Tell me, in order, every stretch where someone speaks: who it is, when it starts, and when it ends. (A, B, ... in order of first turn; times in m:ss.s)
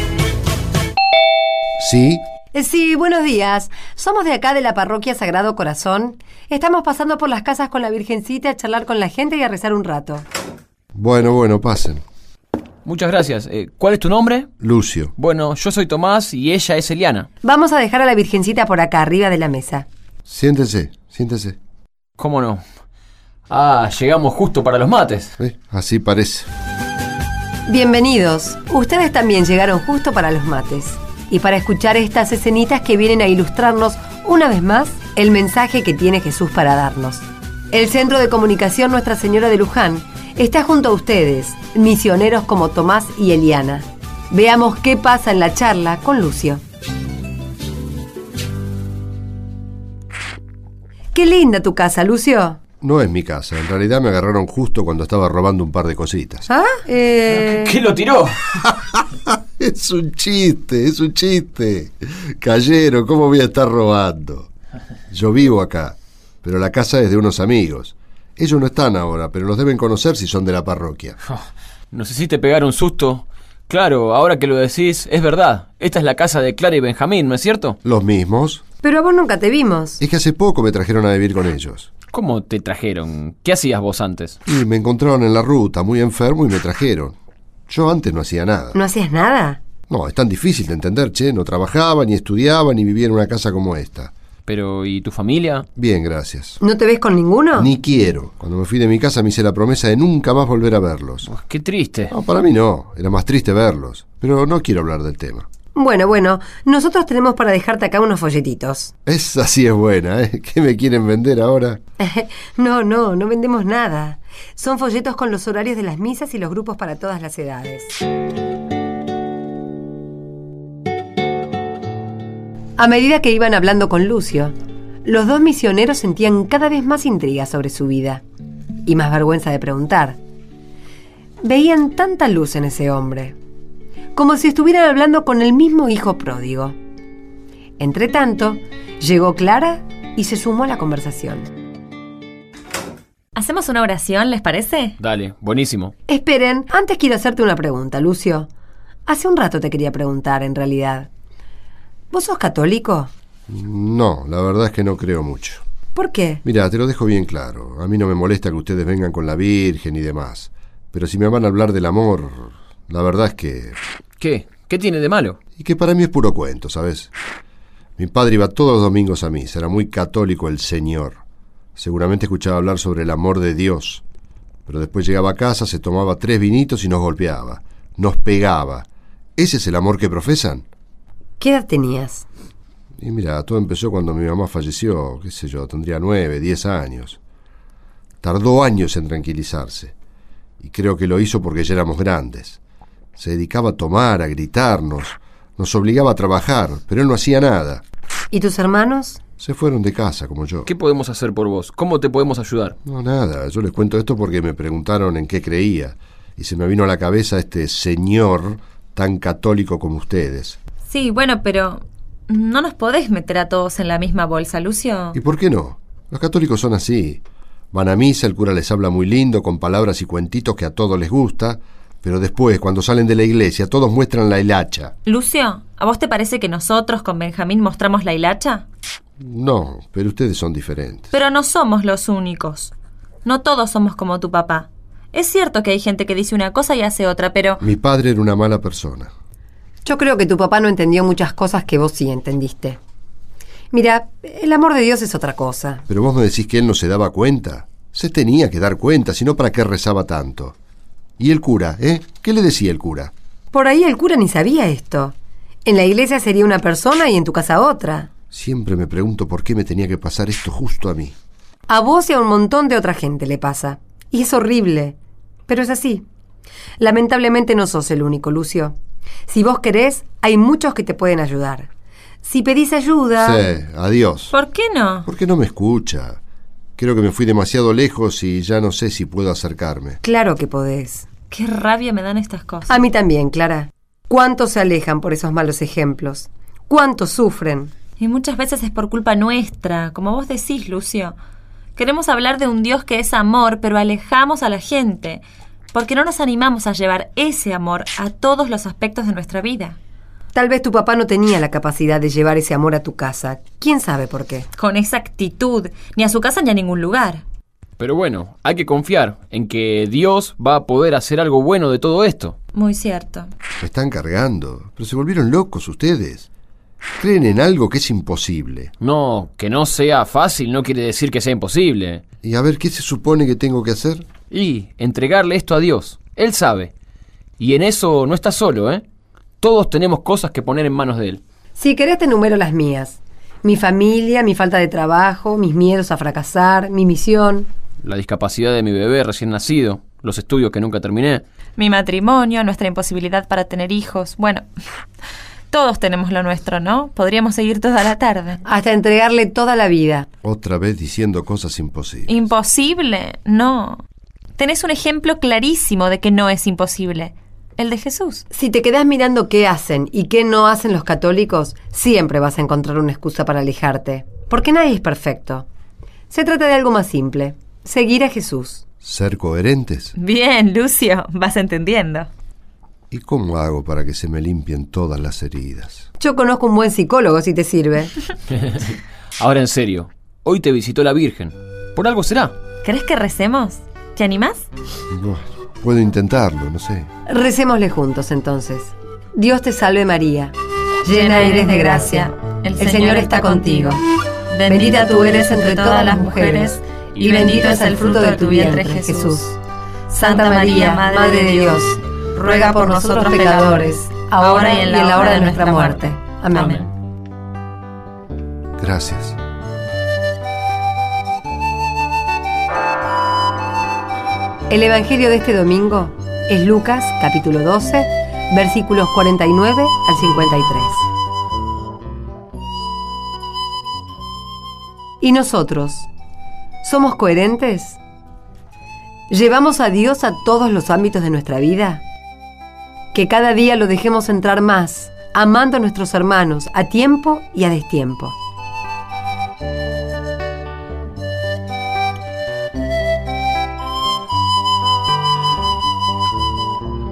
0:01.8-0:02.2 A
0:02.5-0:10.2 B
0:10.9-0:12.0 A
0:12.8-0:14.5 C
0:14.6-0:15.1 A
0:15.2-0:17.3 C
0:17.4-0:19.8 B
0:20.2-0:21.6 A
0:22.2-0:22.6 C
0:23.5-0:25.3 C
0:25.4-0:26.5 A
0:27.6-0:46.6 B
0:51.1-0:52.6 B
0:52.8-0:56.5 A
0:56.5-0:57.8 B
0:57.3-0:58.5 C
0:58.6-1:04.5 A
1:05.1-1:11.2 A
1:11.9-1:17.8 C
1:17.8-1:18.6 A
1:18.8-1:20.0 B
1:20.0-1:21.9 A
1:22.1-1:24.4 C
1:24.4-1:27.2 A
1:27.7-1:28.8 A
1:28.7-1:29.6 B
1:29.9-1:34.1 A
1:34.5-1:35.7 C
1:35.8-1:36.6 A
1:36.6-1:37.7 B
1:37.6-1:41.3 A
1:41.3-1:42.1 C
1:42.1-1:45.5 A
1:45.7-1:48.9 B
1:49.0-1:51.8 A
1:52.0-1:58.0 B
2:02.8-2:08.2 B
2:08.8-2:10.2 B
2:11.4-2:13.3 B
2:14.1-2:16.7 B
2:17.8-2:21.5 B
2:23.3-2:25.0 D
2:25.0-2:25.9 C
2:26.1-2:28.5 B
2:29.0-2:31.1 B
2:32.1-2:33.1 B
2:33.5-2:35.6 A
2:35.9-2:36.4 B
2:36.4-2:43.8 A
2:44.2-2:45.4 C
2:45.6-2:47.1 A
2:48.0-2:51.2 A
2:51.8-2:54.0 A
2:54.7-3:00.6 A
3:01.4-3:02.2 B
3:03.0-3:07.2 A
3:08.2-3:09.9 A
3:10.6-3:12.6 A
3:13.2-3:17.8 A
3:18.3-3:19.2 B
3:19.4-3:20.7 A
3:20.7-3:22.8 C
3:22.8-3:30.6 A
3:30.8-3:35.2 D
3:35.1-3:37.2 A
3:37.7-3:44.9 A
3:45.0-3:48.6 D
3:49.2-3:51.1 A
3:51.1-3:52.7 D
3:53.2-3:57.6 D
3:57.6-3:59.1 A
3:59.8-4:02.8 B
4:03.7-4:05.8 B
4:05.9-4:10.6 A
4:11.2-4:13.1 A
4:13.5-4:18.1 B
4:18.3-4:21.1 A
4:21.7-4:25.0 B
4:25.5-4:26.0 B
4:26.8-4:28.7 B
4:29.3-4:31.7 B
4:32.2-4:33.4 B
4:33.2-4:34.3 A
4:34.3-4:35.1 D
4:35.1-4:36.2 A
4:36.8-4:40.0 A
4:40.0-4:41.1 B
4:41.3-4:42.8 D
4:42.7-4:47.7 B
4:48.0-4:51.2 D
4:51.8-4:59.8 D
5:00.3-5:04.5 B
5:04.5-5:07.2 D
5:07.8-5:12.4 C
5:12.5-5:13.3 D
5:13.6-5:16.3 A
5:17.0-5:18.7 A
5:18.8-5:22.0 C
5:22.2-5:24.0 A
5:24.3-5:26.7 C
5:27.4-5:28.8 C
5:29.4-5:31.2 C
5:31.6-5:37.5 B
5:37.8-5:41.2 C
5:41.6-5:44.4 D
5:45.5-5:48.4 D
5:48.4-5:50.1 B
5:50.2-5:52.1 A
5:52.1-5:53.8 D
5:54.4-5:58.2 D
5:58.3-6:05.5 B
6:06.1-6:08.6 B
6:08.8-6:09.9 A
6:10.0-6:12.1 D
6:12.9-6:15.8 A
6:16.0-6:17.9 B
6:18.3-6:22.4 C
6:22.6-6:24.4 D
6:24.9-6:26.9 A
6:27.1-6:33.8 B
6:30.9-6:39.2 D
6:34.5-6:39.4 B
6:39.9-6:46.7 D
6:39.9-6:46.7 B
6:48.6-6:49.2 A
6:54.5-7:00.8 B
7:05.0-7:05.9 B
7:06.6-7:07.8 B
7:09.1-7:11.8 B
7:12.9-7:18.2 B